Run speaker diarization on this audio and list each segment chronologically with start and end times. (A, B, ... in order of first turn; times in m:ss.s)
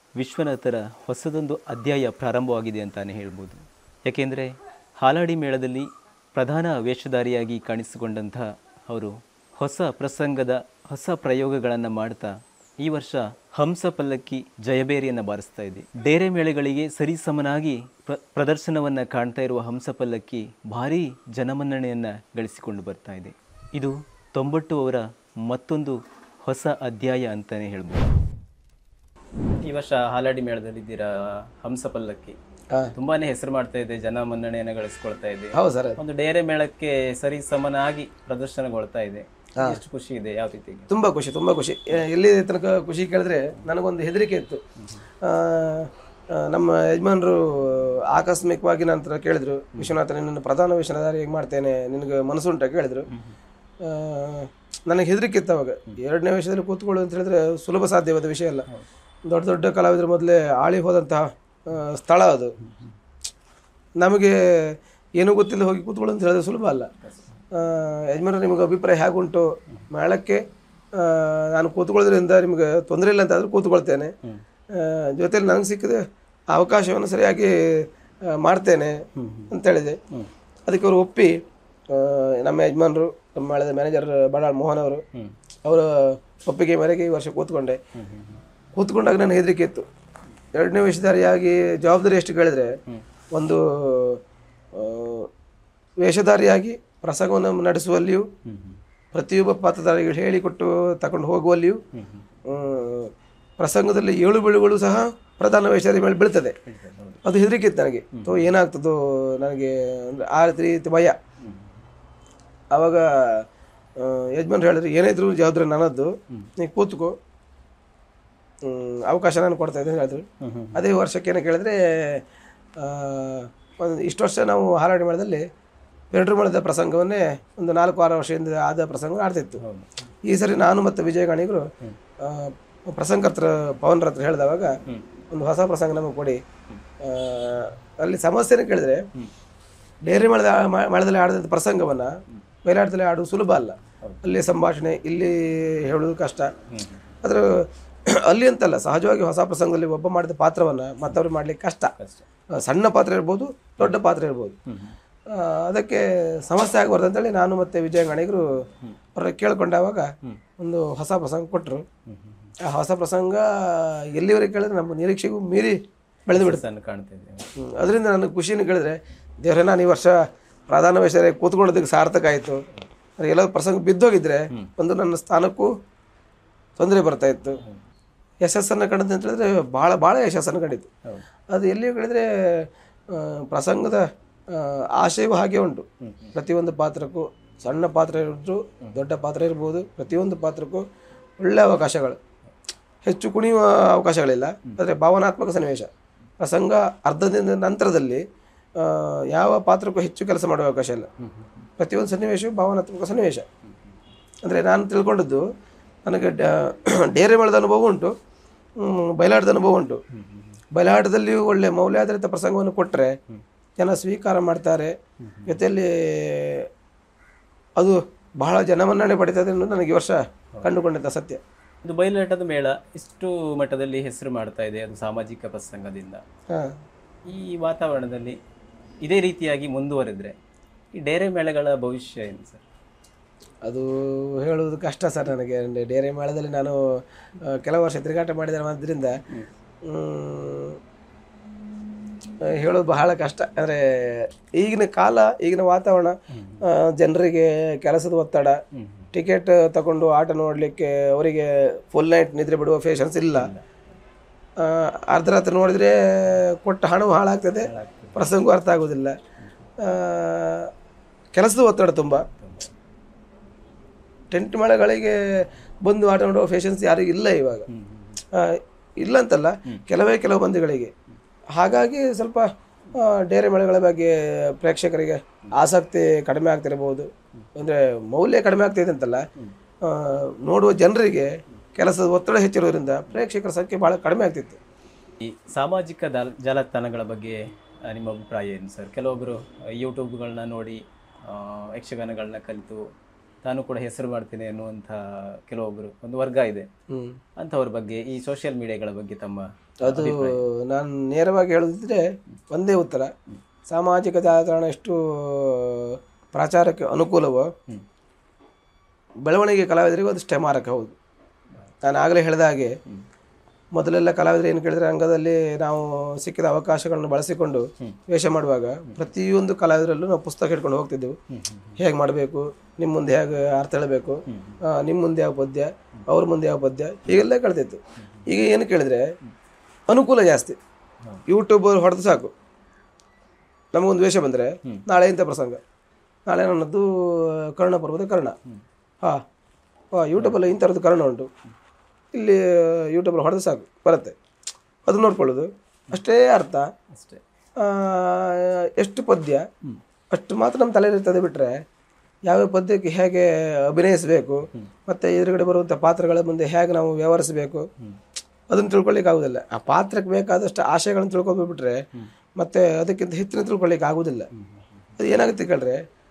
0:00.2-0:28.1 A
0:29.6-0:32.4 A
0:32.9-0:40.9 A
0:35.5-0:36.0 B
0:40.9-0:44.6 B
0:45.2-0:53.0 B
0:53.1-0:53.4 A
0:53.8-0:58.6 B
0:59.3-1:02.5 B
1:02.6-1:02.9 A
1:04.0-1:06.9 B
1:07.0-1:07.4 A
1:07.5-1:10.4 B
1:11.0-1:14.1 B
1:14.7-1:19.0 B
1:19.2-1:19.5 A
1:19.5-1:20.0 B
1:20.7-1:21.4 B
1:21.9-1:25.0 B
1:25.6-1:27.8 B
1:27.9-1:28.4 A
1:28.8-1:29.8 B
1:30.5-1:32.8 B
1:33.3-1:34.2 B
1:34.8-1:35.3 B
1:36.0-1:38.3 B
1:38.4-1:38.8 A
1:39.1-1:41.8 B
1:41.9-1:42.3 A
1:42.5-1:46.6 B
1:46.6-1:47.2 A
1:47.2-1:51.2 B
1:48.2-1:48.5 A
1:51.4-1:51.7 A
1:52.7-1:53.4 B
1:54.0-1:57.2 B
1:58.6-2:02.2 B
2:00.4-2:00.8 A
2:02.8-2:05.4 B
2:06.1-2:09.6 B
2:09.6-2:10.1 A
2:10.3-2:11.7 B
2:12.2-2:14.8 B
2:15.3-2:16.4 B
2:17.0-2:19.0 B
2:20.0-2:26.5 B
2:26.7-2:27.0 A
2:27.2-2:31.9 B
2:32.0-2:32.3 A
2:32.5-2:34.6 B
2:34.7-2:34.9 A
2:35.3-2:38.5 B
2:39.2-2:41.8 B
2:42.1-2:42.5 A
2:42.7-2:46.6 B
2:46.3-2:47.5 A
2:47.7-2:52.6 B
2:53.2-2:55.7 B
2:56.8-2:57.6 B
2:58.4-3:00.9 B
3:01.5-3:10.8 B
3:06.0-3:06.3 A
3:11.4-3:12.2 B
3:13.0-3:15.9 B
3:16.4-3:18.2 B
3:18.8-3:21.1 B
3:21.2-3:21.5 A
3:21.8-3:23.4 B
3:24.4-3:25.4 B
3:26.0-3:28.1 B
3:28.8-3:30.0 B
3:30.1-3:30.6 A
3:30.7-3:33.2 B
3:33.8-3:35.0 B
3:35.2-3:35.6 A
3:35.5-3:36.7 B
3:37.8-3:41.4 B
3:41.8-3:46.2 A
3:46.5-3:46.8 B
3:47.2-3:48.4 A
3:49.0-3:50.4 A
3:50.9-3:52.6 A
3:53.6-3:59.2 B
3:59.8-4:00.8 B
4:02.5-4:06.2 B
4:06.3-4:06.6 A
4:06.7-4:08.6 B
4:08.7-4:09.1 A
4:09.1-4:13.5 B
4:14.6-4:19.2 B
4:17.6-4:18.2 A
4:19.8-4:20.7 B
4:21.4-4:22.2 B
4:24.3-4:27.6 B
4:27.7-4:28.2 A
4:28.3-4:30.9 B
4:31.5-4:39.2 B
4:39.8-4:44.6 B
4:45.2-4:52.9 A
4:53.4-4:56.7 A
4:56.9-4:57.2 B
4:57.4-5:00.4 A
4:59.8-5:03.1 B
5:03.7-5:07.5 B
5:09.2-5:10.9 B
5:11.8-5:12.8 B
5:13.7-5:21.2 B
5:21.3-5:21.8 A
5:21.8-5:29.1 B
5:24.3-5:24.6 A
5:29.9-5:30.6 B
5:31.3-5:32.3 B
5:33.7-5:35.6 B
5:36.3-5:38.3 B
5:39.9-5:41.3 B
5:42.1-5:44.1 B
5:44.8-5:46.7 B
5:46.9-5:47.2 A
5:47.6-5:49.4 B
5:50.1-5:51.6 B
5:52.2-5:57.7 B
5:58.5-6:01.8 B
6:02.4-6:04.3 B
6:05.0-6:05.8 B